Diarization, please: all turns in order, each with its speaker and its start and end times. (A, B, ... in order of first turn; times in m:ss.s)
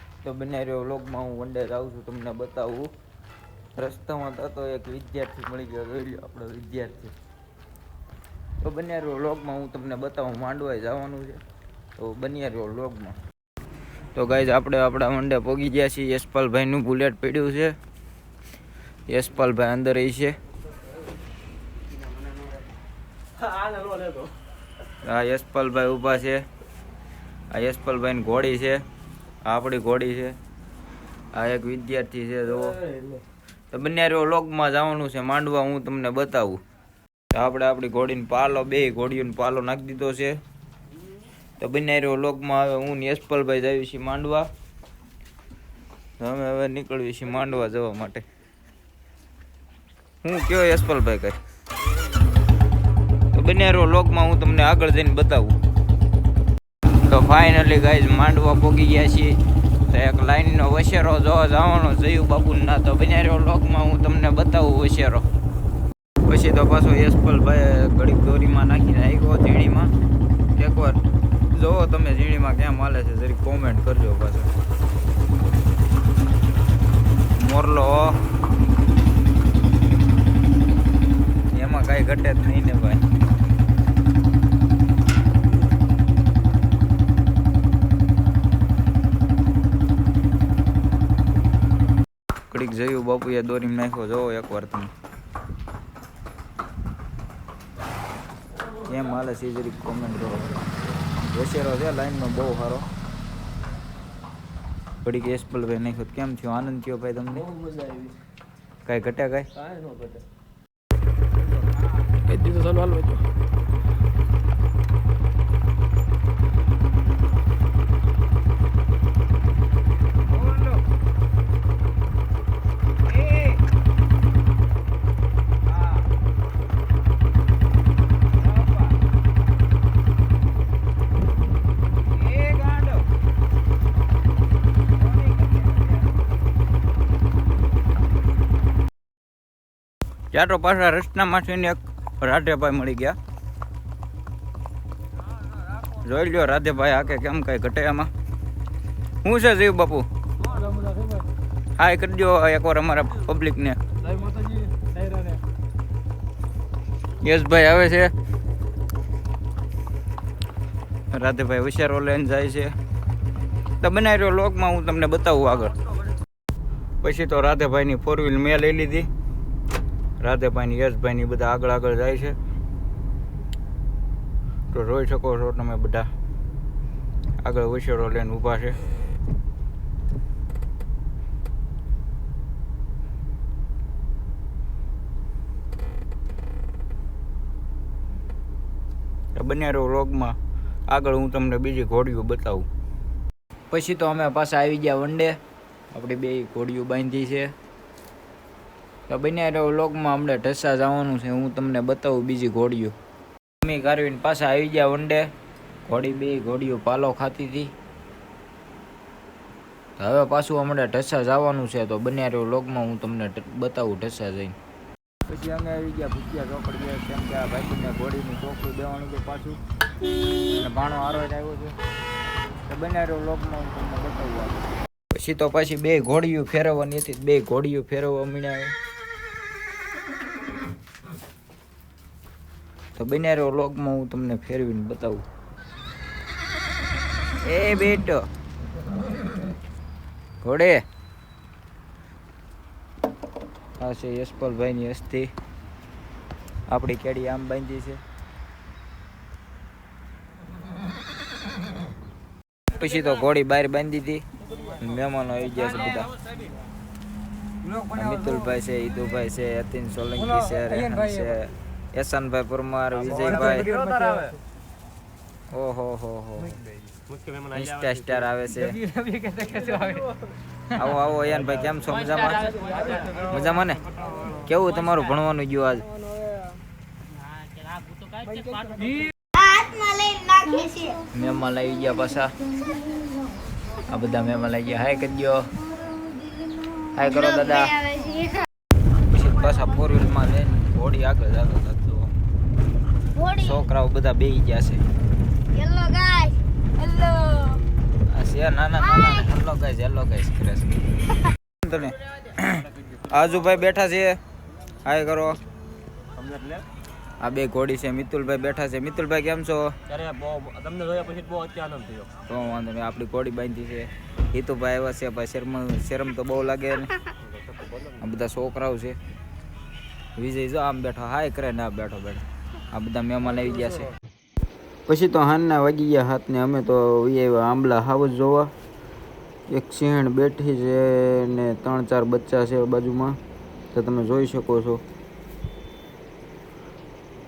0:00.2-0:02.9 A
0:03.8-0:07.1 A
0:08.6-0:11.4 A
0:12.0-0:13.2 A
0:14.1-0:17.7 A
0:19.1-0:20.4 A
0:23.3-0:24.3 B
0:25.0-0:26.4 A
0:27.5-0:28.8 A
0:29.4-0:30.4 A
0:31.3-0:32.8 A
0:32.6-0:33.2 B
0:33.7-0:36.6 A
0:37.3-0:40.4 A
0:41.6-0:44.5 A
0:46.2-0:48.2 A
0:50.2-0:51.4 A
0:53.3-0:55.6 A
0:57.0-1:05.2 A
1:06.2-1:09.9 A
1:10.6-1:14.5 A
1:17.4-1:18.2 A
1:21.5-1:23.0 A
1:32.5-1:34.9 A
1:38.9-1:40.5 A
1:41.1-1:42.9 A
1:45.0-1:47.5 A
1:47.4-1:48.2 B
1:48.8-1:49.5 A
1:49.6-1:50.2 B
1:52.3-1:53.1 B
2:00.2-2:00.8 A
2:03.0-2:03.6 A
2:05.6-2:06.1 A
2:08.3-2:09.0 A
2:12.0-2:13.1 A
2:15.0-2:16.2 A
2:20.3-2:23.2 A
2:25.8-2:28.1 A
2:29.2-2:30.0 A
2:30.7-2:31.2 B
2:31.8-2:33.8 A
2:37.2-2:38.1 A
2:41.1-2:42.7 A
2:43.8-2:45.8 A
2:47.0-2:49.1 A
2:50.2-2:52.4 A
2:54.7-2:56.1 A
2:57.4-2:58.8 A
3:09.4-3:10.4 A
3:10.9-3:12.7 A
3:13.7-3:15.4 A
3:15.9-3:17.5 A
3:19.1-3:22.9 A
3:23.6-3:25.3 A
3:25.8-3:27.7 A
3:30.0-3:34.5 A
3:35.2-3:39.6 A
3:40.5-3:41.8 A
3:42.6-3:48.7 A
3:53.0-3:55.2 A
3:57.4-3:58.2 A
4:00.4-4:00.8 A
4:03.8-4:05.3 A
4:06.7-4:08.0 A
4:12.7-4:16.1 A
4:17.6-4:23.7 A
4:23.6-4:24.4 B
4:25.5-4:26.6 A
4:27.1-4:27.7 B
4:27.5-4:29.0 A
4:29.0-4:30.1 B
4:30.7-4:35.9 A
4:32.7-4:33.1 B
4:38.3-4:39.0 B
4:39.3-4:41.0 C
4:41.1-4:42.4 A
4:43.9-4:45.5 A
4:46.1-4:48.5 C
4:46.9-4:47.8 A
4:49.0-4:52.1 A
4:53.1-4:53.6 C
4:53.3-4:54.8 A
4:55.5-4:57.7 C
4:58.0-5:00.8 A
5:01.6-5:04.2 A
5:04.8-5:05.4 A
5:06.1-5:06.6 B
5:07.2-5:09.7 A
5:09.9-5:12.1 B
5:12.2-5:16.9 A
5:17.5-5:17.8 B
5:18.0-5:19.0 A
5:20.2-5:23.9 A
5:24.8-5:28.5 A
5:29.5-5:33.2 A
5:33.7-5:34.8 A